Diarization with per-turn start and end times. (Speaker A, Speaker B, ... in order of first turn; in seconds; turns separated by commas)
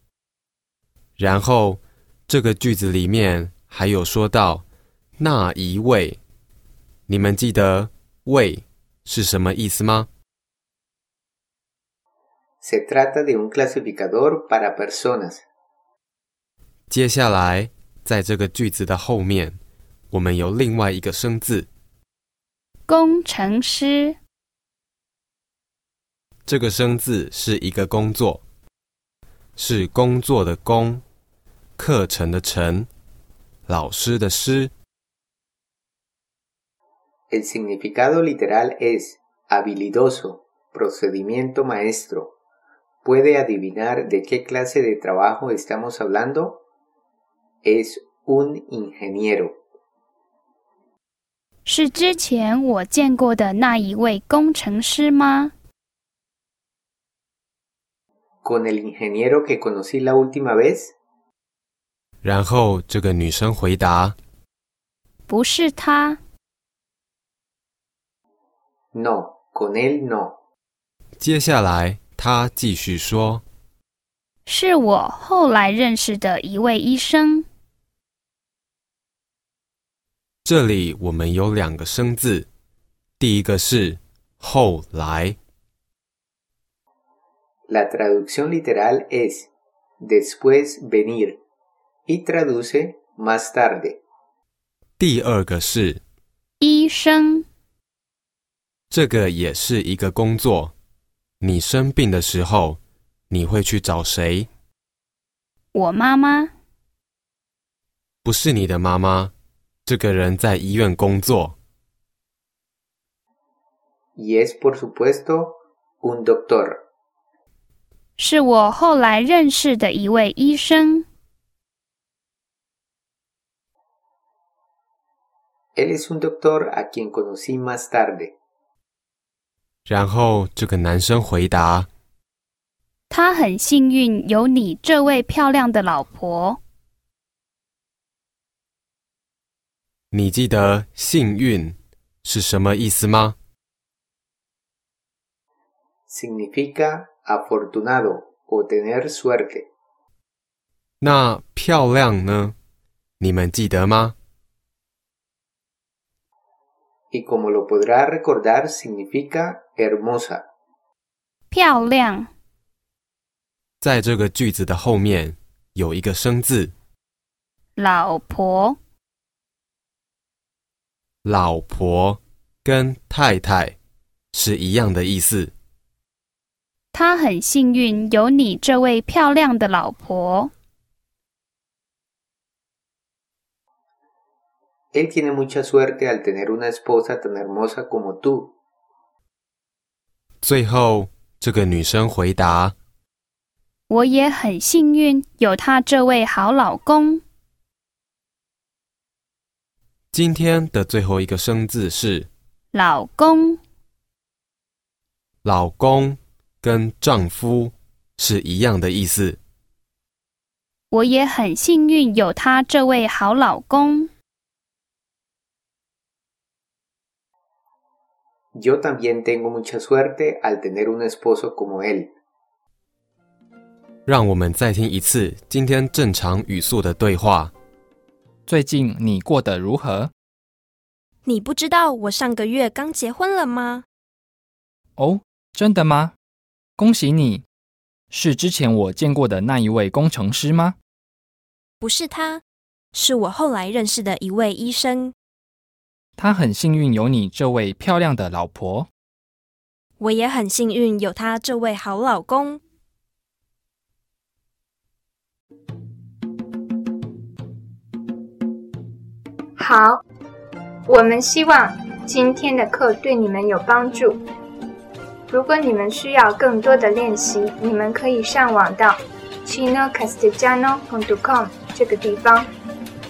Speaker A: 1.2-4.6, Speaker A: 5.2-6.2, Speaker A: 7.1-10.1, Speaker B: 12.6-15.4, Speaker A: 16.9-19.6, Speaker A: 20.1-21.7, Speaker C: 22.9-24.2, Speaker A: 26.4-28.4, Speaker A: 29.6-31.0, Speaker A: 31.8-32.9, Speaker A: 33.7-34.7, Speaker B: 37.3-42.3, Speaker B: 43.0-46.6, Speaker B: 47.6-49.6, Speaker C: 51.6-55.5, Speaker B: 58.4-60.9, Speaker A: 62.2-64.2, Speaker C: 65.3-66.2, Speaker B: 68.9-70.3, Speaker A: 71.2-73.4, Speaker C: 74.5-77.5, Speaker A: 80.4-82.5, Speaker A: 83.2-85.4, Speaker B: 87.7-89.5, Speaker B: 90.0-91.4, Speaker B: 92.1-94.0, Speaker A: 95.0-96.0, Speaker C: 96.6-97.5, Speaker A: 98.9-100.7, Speaker A: 101.4-102.8, Speaker A: 103.3-104.5, Speaker C: 105.7-106.5, Speaker A: 108.2-109.3, Speaker A: 109.8-111.5, Speaker B: 114.2-116.8, Speaker C: 118.2-121.0, Speaker B: 125.8-128.3, Speaker A: 129.8-131.9, Speaker C: 133.1-136.6, Speaker A: 140.1-143.3, Speaker B: 146.1-149.7, Speaker A: 151.0-152.5, Speaker A: 153.2-154.1, Speaker B: 157.1-160.4, Speaker C: 161.5-162.3, Speaker A: 163.8-166.7, Speaker C: 167.8-168.8, Speaker A: 171.2-173.8, Speaker A: 174.3-175.5, Speaker C: 176.9-180.5, Speaker B: 184.9-188.5, Speaker A: 190.4-192.7, Speaker C: 193.9-197.2, Speaker A: 200.1-202.3, Speaker C: 202.7-203.6, Speaker A: 205.4-209.4, Speaker C: 210.9-214.1, Speaker B: 218.5-222.1, Speaker A: 224.1-227.5, Speaker D: 228.5-230.1, Speaker E: 231.2-233.8, Speaker D: 235.0-236.1, Speaker D: 236.8-237.4, Speaker D: 238.1-240.8, Speaker E: 241.8-242.4, Speaker E: 242.9-245.1, Speaker D: 246.2-248.9, Speaker E: 250.0-252.6, Speaker F: 259.6-260.0, Speaker F: 260.9-264.2, Speaker F: 265.3-272.5